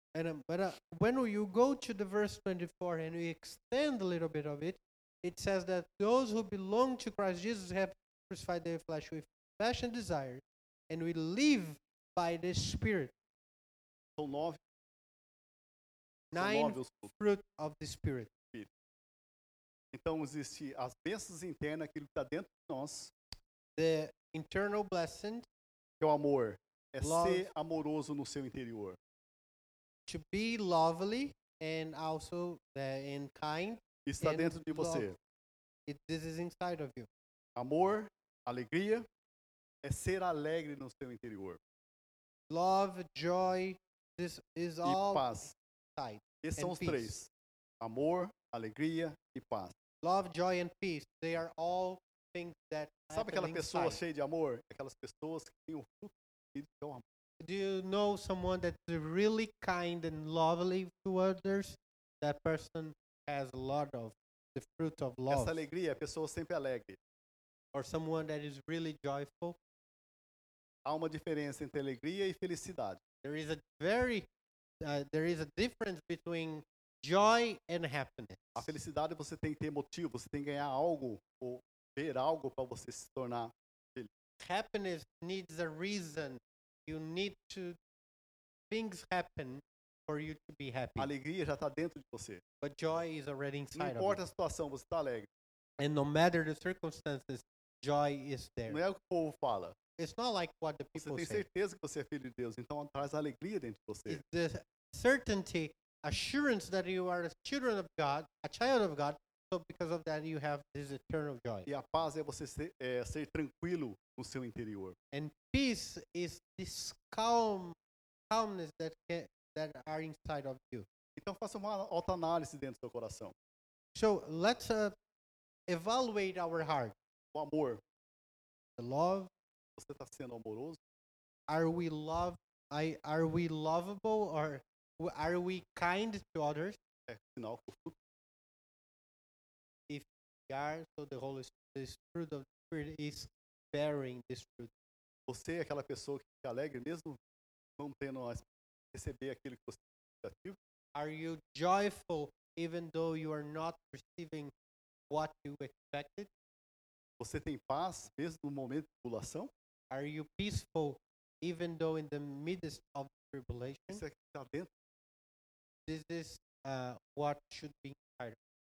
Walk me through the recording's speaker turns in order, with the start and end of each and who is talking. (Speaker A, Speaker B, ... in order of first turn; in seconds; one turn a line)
Speaker A: 0.1-13.1
Speaker B: 14.2-14.6
Speaker A: 16.3-18.3
Speaker B: 16.4-17.1
Speaker B: 19.9-23.1
Speaker A: 23.8-25.5
Speaker B: 26.0-29.0
Speaker A: 27.0-27.5
Speaker A: 30.1-35.1
Speaker B: 34.1-35.2
Speaker A: 35.9-37.1
Speaker B: 37.6-39.1
Speaker B: 39.8-41.6
Speaker A: 42.5-47.1
Speaker B: 44.8-45.5
Speaker B: 46.4-47.3
Speaker B: 47.8-49.8
Speaker A: 50.0-54.0
Speaker B: 53.1-57.0
Speaker A: 57.4-65.6
Speaker B: 65.3-67.0
Speaker A: 67.7-69.6
Speaker B: 70.8-73.0
Speaker A: 73.2-74.3
Speaker A: 74.8-78.7
Speaker B: 78.6-84.1
Speaker A: 84.4-87.8
Speaker A: 88.7-91.1
Speaker B: 91.0-92.4
Speaker A: 92.6-94.2
Speaker B: 93.8-95.3
Speaker A: 95.8-98.8
Speaker B: 98.7-99.8
Speaker A: 100.0-101.5
Speaker B: 101.0-104.2
Speaker A: 104.1-111.7
Speaker B: 111.7-115.0
Speaker A: 115.1-117.8
Speaker A: 118.3-120.9
Speaker B: 121.2-123.3
Speaker A: 124.0-125.0
Speaker A: 125.7-127.0
Speaker B: 127.3-127.8
Speaker A: 128.8-129.3
Speaker B: 129.8-130.8
Speaker A: 131.5-136.8
Speaker B: 137.1-137.9
Speaker A: 139.9-144.7
Speaker B: 145.3-147.2
Speaker B: 147.8-150.6
Speaker A: 150.9-154.5
Speaker A: 155.1-156.3
Speaker B: 157.2-159.5
Speaker A: 159.9-164.0
Speaker B: 163.9-164.7
Speaker A: 165.9-168.4